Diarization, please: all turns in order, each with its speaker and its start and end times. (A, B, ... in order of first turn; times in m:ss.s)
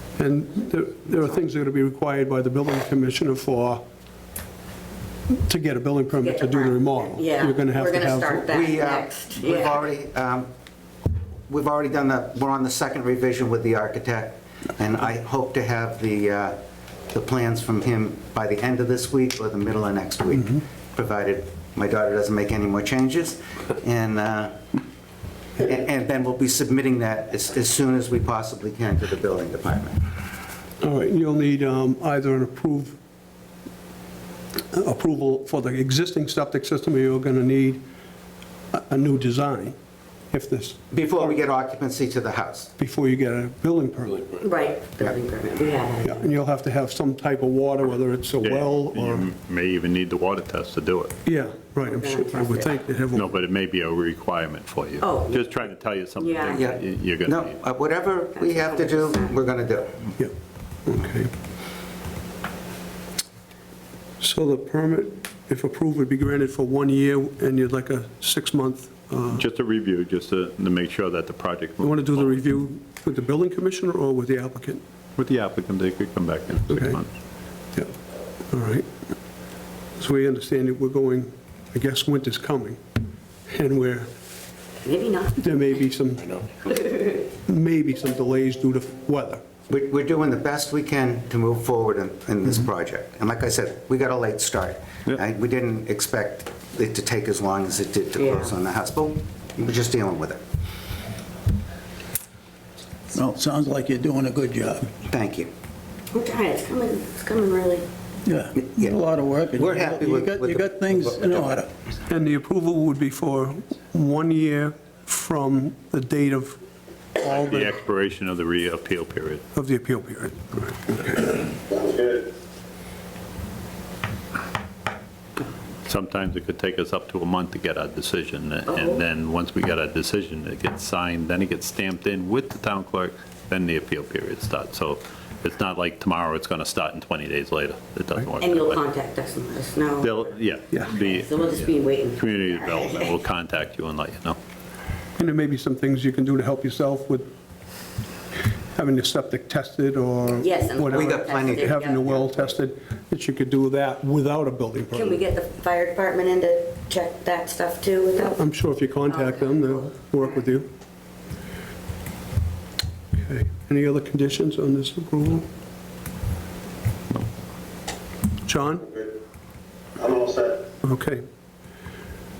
0:00.2-0:03.8 A
0:05.3-0:08.5 A
0:06.2-0:09.8 B
0:08.5-0:10.5 C
0:11.5-0:16.6 C
0:17.1-0:24.6 C
0:25.6-0:30.0 C
0:30.8-0:33.0 A
0:34.7-0:37.8 A
0:38.7-0:39.8 A
0:40.3-0:40.8 A
0:40.9-0:42.7 C
0:42.8-0:44.3 A
0:44.4-0:46.1 B
0:46.0-0:49.3 A
0:48.4-0:51.1 D
0:51.2-0:53.3 A
0:51.8-0:52.8 B
0:53.1-0:57.5 D
0:55.0-0:56.6 B
0:56.5-1:00.0 C
0:58.3-0:59.3 B
1:00.8-1:01.3 A
1:04.2-1:09.4 A
1:09.3-1:12.4 D
1:11.8-1:14.8 A
1:15.2-1:17.1 D
1:16.7-1:17.0 A
1:18.5-1:18.8 A
1:20.0-1:22.8 A
1:23.5-1:24.1 A
1:24.8-1:25.4 B
1:25.4-1:26.3 A
1:27.4-1:29.4 A
1:29.7-1:40.4 C
1:38.2-1:38.5 B
1:43.1-1:45.0 E
1:45.1-1:45.5 C
1:46.1-1:47.9 B
1:48.2-1:51.7 E
1:48.6-1:49.0 C
1:49.5-1:51.6 C
1:52.0-1:56.6 A
1:57.2-1:57.7 A
1:57.4-1:59.4 D
1:59.5-2:01.5 A
2:05.8-2:18.8 D
2:08.7-2:09.0 B
2:18.4-2:20.2 B
2:20.0-2:24.4 D
2:20.8-2:23.1 B
2:25.2-2:27.3 A
2:28.7-2:35.2 A
2:30.4-2:32.2 B
2:30.8-2:31.7 C
2:34.9-2:38.4 B
2:38.3-2:40.7 A
2:39.0-2:40.4 B
2:43.1-2:45.5 A
2:48.4-2:49.0 A
2:50.8-2:51.2 A